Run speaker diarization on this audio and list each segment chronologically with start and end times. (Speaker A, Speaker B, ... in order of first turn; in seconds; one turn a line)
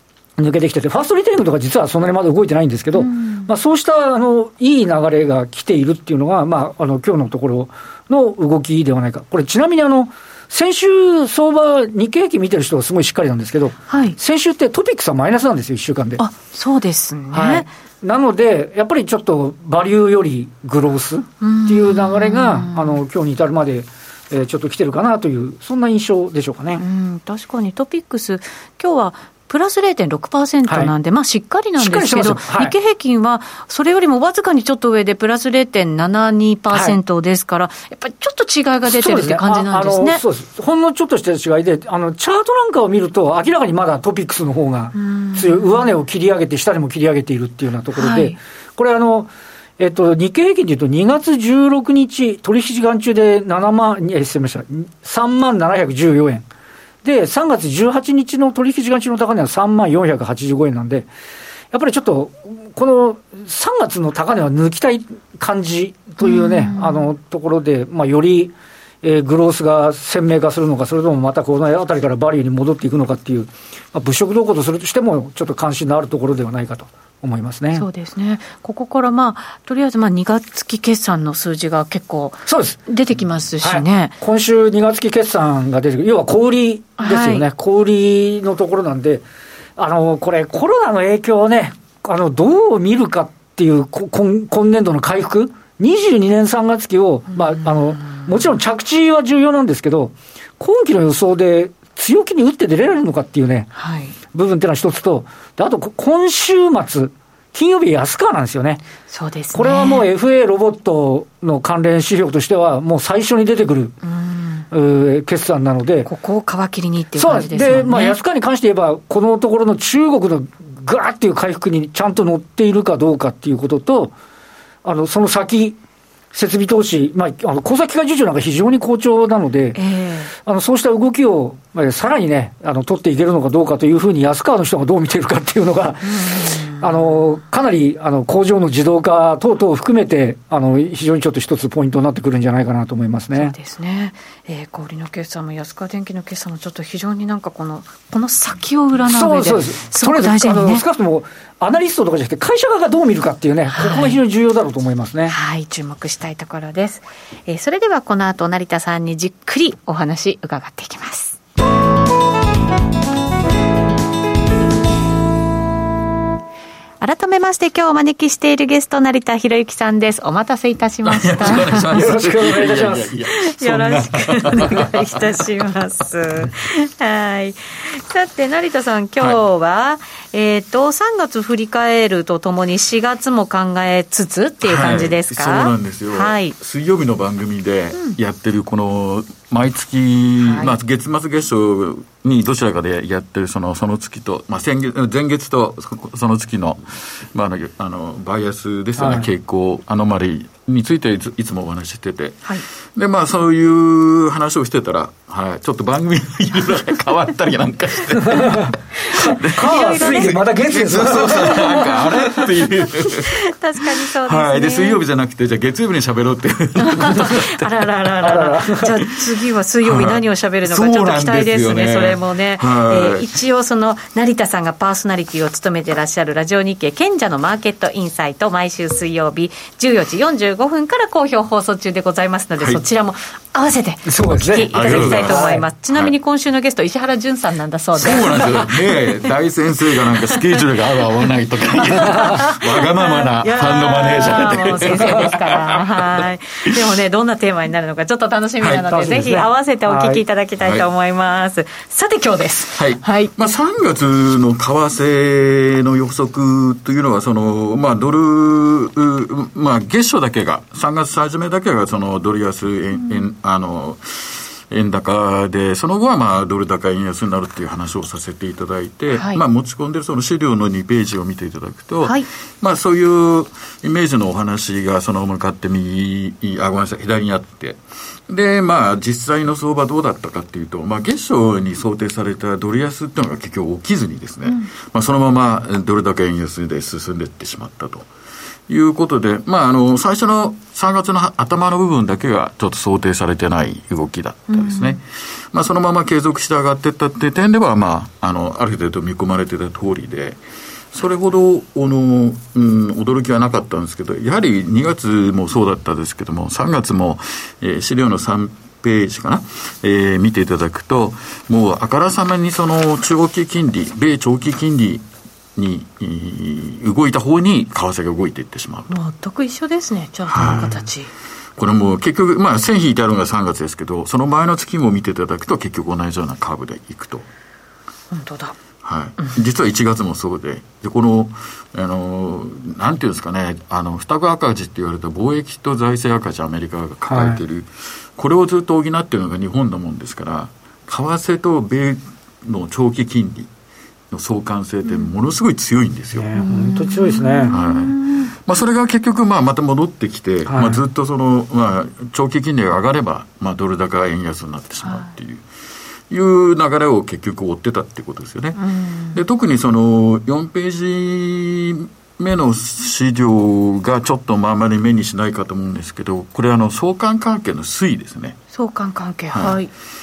Speaker A: 0.4-16.2
Speaker B: 2.9-3.5
Speaker B: 13.9-14.2
Speaker B: 16.2-17.7
Speaker A: 17.3-26.8
Speaker B: 21.4-23.0
Speaker B: 26.8-40.2
Speaker A: 30.7-30.9
Speaker A: 31.8-32.7
Speaker A: 36.7-37.0
Speaker A: 38.9-56.4
Speaker B: 45.0-45.9
Speaker B: 47.9-48.4
Speaker A: 57.0-61.1
Speaker A: 61.7-77.8
Speaker B: 66.2-67.1
Speaker B: 77.8-84.1
Speaker A: 82.5-82.8
Speaker A: 83.6-89.2
Speaker B: 87.0-87.5
Speaker A: 89.8-103.7
Speaker B: 97.3-98.2
Speaker B: 103.8-104.2
Speaker A: 104.3-108.8
Speaker B: 109.1-110.1
Speaker A: 109.5-114.0
Speaker B: 114.1-114.7
Speaker A: 114.7-116.1
Speaker B: 116.0-118.2
Speaker A: 117.2-124.1
Speaker A: 124.8-125.8
Speaker A: 126.3-129.8
Speaker B: 129.8-130.3
Speaker A: 130.4-143.5
Speaker B: 136.0-136.9
Speaker B: 143.3-150.8
Speaker A: 149.1-155.3
Speaker B: 153.7-154.2
Speaker B: 155.3-161.4
Speaker B: 167.0-172.0
Speaker C: 171.0-175.6
Speaker A: 171.9-173.1
Speaker B: 173.3-186.5
Speaker C: 184.6-217.8
Speaker B: 190.4-190.7
Speaker A: 199.0-199.3
Speaker A: 208.2-212.4
Speaker B: 209.0-210.5
Speaker B: 213.1-215.0
Speaker B: 216.8-239.0
Speaker A: 218.2-218.9
Speaker C: 219.0-219.3
Speaker C: 219.8-223.3
Speaker A: 234.1-235.6
Speaker C: 234.7-236.1
Speaker C: 238.0-246.8
Speaker B: 240.1-240.6
Speaker B: 241.8-253.3
Speaker C: 248.6-248.9
Speaker A: 248.8-250.2
Speaker C: 250.6-250.9
Speaker C: 252.8-288.1
Speaker B: 269.1-269.4
Speaker C: 288.7-300.4
Speaker B: 294.5-295.0
Speaker C: 300.9-318.9
Speaker B: 318.9-321.1
Speaker C: 320.3-320.9
Speaker C: 321.6-327.3
Speaker B: 328.1-328.6
Speaker C: 328.8-343.5
Speaker A: 337.1-337.4
Speaker C: 344.1-346.3
Speaker A: 346.1-347.5
Speaker B: 346.4-348.3
Speaker C: 347.5-355.4
Speaker A: 350.5-350.8
Speaker C: 356.1-358.6
Speaker B: 358.6-359.2
Speaker C: 359.1-368.4
Speaker B: 368.5-369.7
Speaker C: 369.3-369.6